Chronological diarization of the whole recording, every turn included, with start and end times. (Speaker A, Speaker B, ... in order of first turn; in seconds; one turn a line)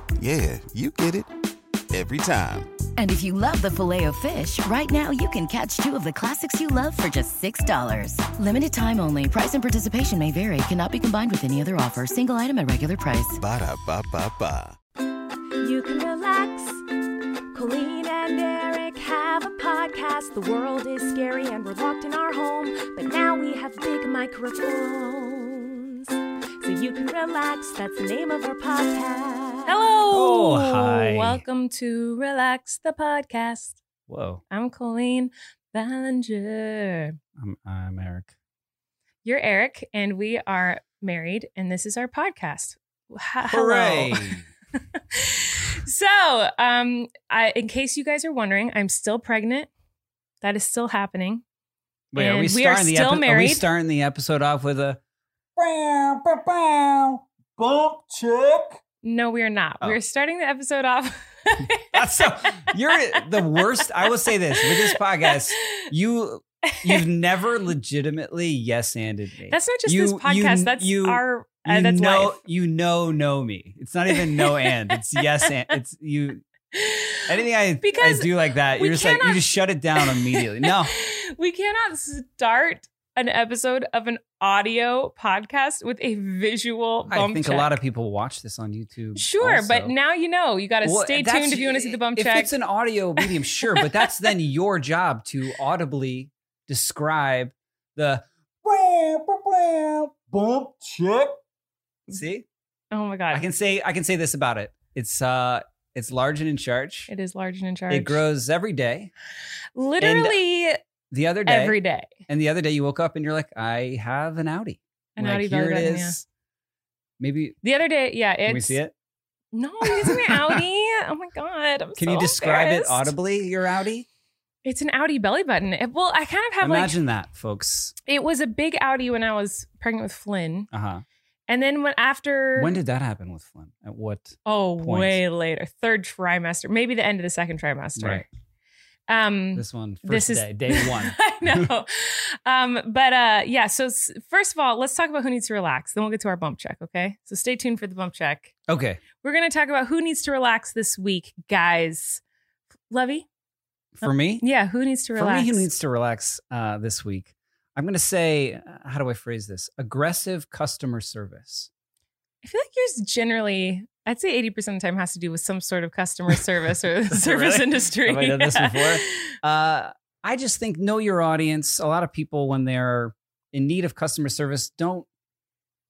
Speaker A: 0.2-1.3
Speaker A: 1.9-2.7
Speaker B: 3.0-13.4
Speaker A: 13.3-14.8
Speaker C: 15.6-16.7
Speaker C: 17.5-25.6
Speaker C: 26.6-28.8
Speaker D: 29.6-33.8
Speaker E: 30.1-31.4
Speaker E: 34.1-34.4
Speaker D: 34.5-37.2
Speaker E: 37.4-38.3
Speaker D: 39.2-49.7
Speaker E: 43.5-44.5
Speaker D: 50.4-51.4
Speaker E: 52.1-55.0
Speaker D: 52.2-53.7
Speaker E: 55.6-58.8
Speaker D: 59.0-63.2
Speaker E: 61.9-76.4
Speaker D: 64.5-65.8
Speaker D: 66.7-67.0
Speaker D: 69.5-72.4
Speaker D: 74.2-75.7
Speaker D: 76.7-87.8
Speaker E: 77.3-80.9
Speaker E: 87.1-89.9
Speaker D: 89.2-92.5
Speaker E: 90.8-101.4
Speaker D: 93.2-94.1
Speaker E: 102.1-102.5
Speaker D: 102.9-103.4
Speaker E: 103.3-107.1
Speaker D: 107.1-108.2
Speaker E: 107.9-109.1
Speaker D: 109.8-110.8
Speaker E: 110.0-110.4
Speaker E: 111.1-116.2
Speaker D: 111.5-112.1
Speaker D: 115.2-116.2
Speaker E: 117.2-117.6
Speaker D: 117.6-118.8
Speaker E: 118.5-118.9
Speaker D: 119.5-123.1
Speaker E: 119.8-120.6
Speaker E: 122.0-124.1
Speaker D: 124.7-127.0
Speaker E: 126.6-127.9
Speaker D: 128.1-130.7
Speaker E: 130.7-131.0
Speaker D: 131.5-132.8
Speaker E: 132.6-135.2
Speaker D: 134.5-138.3
Speaker E: 138.0-138.3
Speaker D: 139.1-148.5
Speaker E: 139.6-141.7
Speaker E: 148.7-149.0
Speaker D: 149.2-152.2
Speaker D: 152.9-153.3
Speaker E: 153.9-154.4
Speaker D: 154.0-155.7
Speaker E: 155.2-161.7
Speaker D: 162.4-169.3
Speaker E: 167.1-175.1